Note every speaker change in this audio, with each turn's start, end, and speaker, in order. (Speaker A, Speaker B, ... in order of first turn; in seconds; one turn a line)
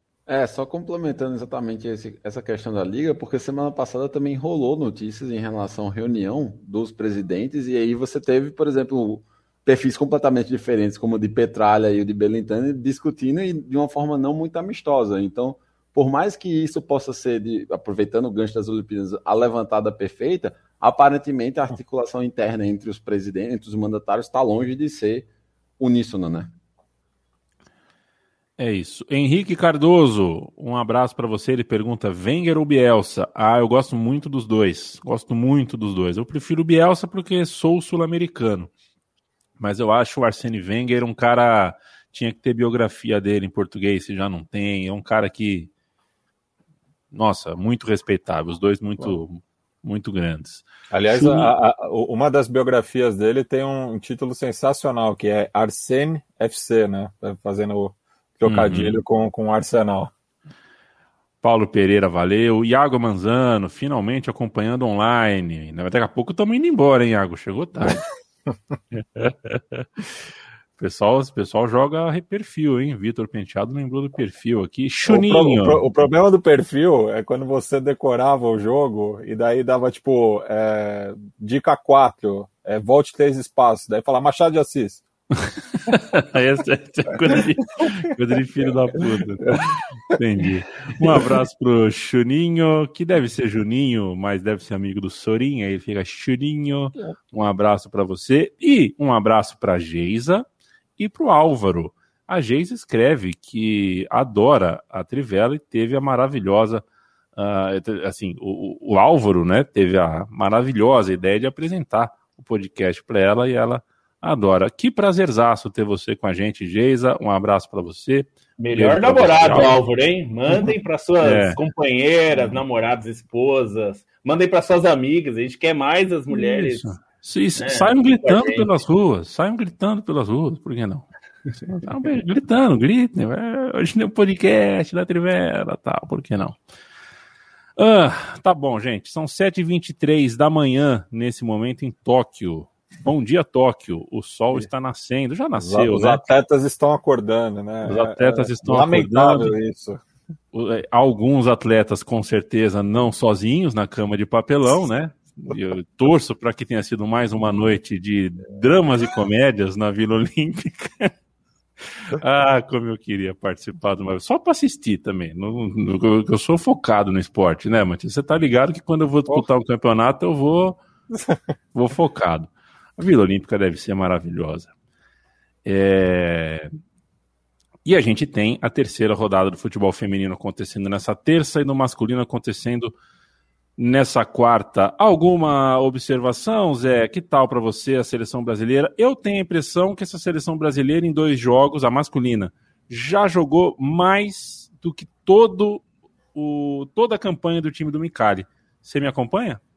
Speaker A: 0.3-26.5
Speaker B: 28.6-38.7
Speaker B: 39.6-45.7
Speaker B: 47.1-51.5
Speaker C: 50.9-60.1
Speaker B: 58.5-59.0
Speaker B: 61.4-68.0
Speaker B: 69.0-69.9
Speaker B: 70.8-75.8
Speaker C: 75.1-85.0
Speaker B: 85.9-100.5
Speaker C: 91.0-91.3
Speaker B: 101.0-106.8
Speaker B: 107.4-119.8
Speaker D: 118.6-126.9
Speaker B: 120.5-121.6
Speaker B: 126.3-136.6
Speaker D: 127.5-128.7
Speaker B: 137.8-146.2
Speaker C: 145.6-150.0
Speaker B: 147.8-149.5
Speaker B: 150.5-161.1
Speaker B: 162.0-170.8
Speaker C: 171.1-171.4
Speaker B: 171.7-174.7
Speaker B: 175.7-176.7
Speaker B: 177.8-182.9
Speaker B: 183.8-195.8
Speaker B: 196.3-199.6